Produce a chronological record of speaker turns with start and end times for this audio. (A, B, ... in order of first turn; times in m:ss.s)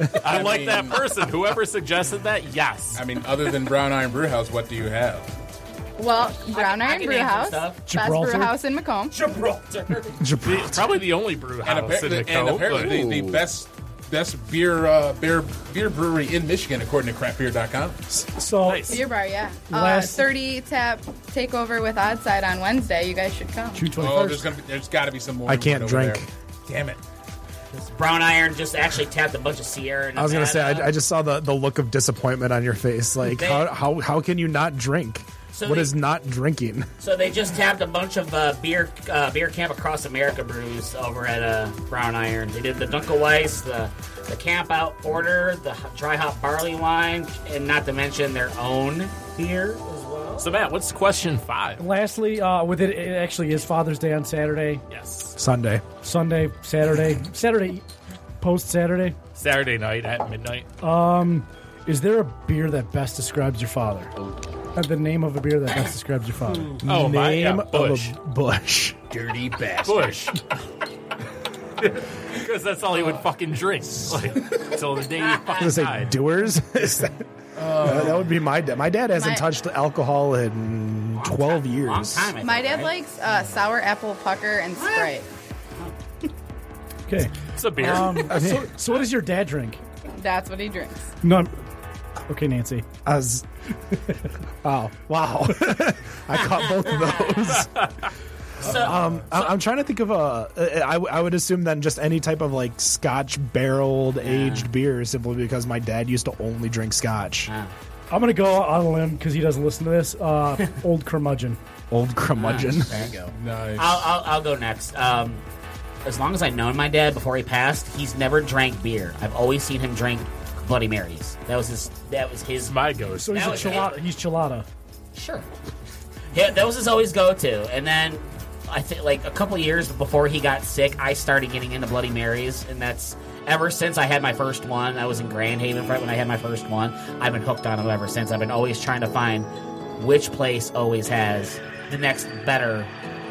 0:00.1-0:03.0 A
0:00.2-0:01.0 B
0:02.9-0:05.3 B
0:06.0-0:09.2 C
0:06.5-0:07.9 D
0:07.9-0:08.6 E
0:09.1-0:10.2 D
0:10.2-0:10.9 F
0:10.4-0:13.0 A
0:11.6-0:18.2 B
0:12.7-0:13.5 G
0:18.4-0:19.0 E
0:18.6-0:19.0 A
0:18.9-0:23.9 C
0:19.7-0:20.2 E
0:23.7-0:24.5 E
0:24.0-0:27.0 B
0:25.5-0:26.3 F
0:27.8-0:30.9 D
0:30.1-0:36.9 F
0:33.2-0:33.7 D
0:35.5-0:35.9 D
0:37.0-0:50.5 D
0:50.4-0:51.8 A
0:51.8-0:54.8 E
0:54.9-0:55.4 A
0:55.4-0:55.8 F
0:56.0-0:57.8 E
0:58.4-0:59.2 E
0:59.4-1:00.7 A
1:00.8-1:04.1 E
1:04.7-1:06.8 E
1:06.5-1:08.1 A
1:06.8-1:09.0 F
1:09.1-1:10.3 G
1:09.8-1:10.4 A
1:11.8-1:16.2 A
1:15.2-1:15.7 D
1:15.6-1:22.3 F
1:17.6-1:18.4 B
1:19.1-1:19.5 C
1:21.2-1:22.9 D
1:22.4-1:25.3 C
1:24.7-1:25.1 D
1:27.1-1:29.8 E
1:27.6-1:28.4 A
1:28.3-1:28.7 F
1:30.1-1:31.0 C
1:31.2-1:31.6 E
1:32.3-1:32.8 E
1:33.0-1:33.4 F
1:34.6-1:37.9 F
1:36.5-1:37.4 D
1:37.6-1:38.1 A
1:38.6-1:39.0 D
1:38.6-1:39.2 B
1:38.6-1:47.5 F
1:44.2-1:44.7 D
1:48.1-1:51.6 E
1:51.9-1:52.9 F
1:52.4-1:53.2 D
1:52.6-1:53.3 G
1:53.3-1:54.1 B
1:53.8-1:55.4 D
1:56.0-2:02.7 D
2:02.7-2:03.8 A
2:03.2-2:04.7 E
2:03.3-2:03.9 D
2:05.1-2:05.5 D
2:06.3-2:22.9 D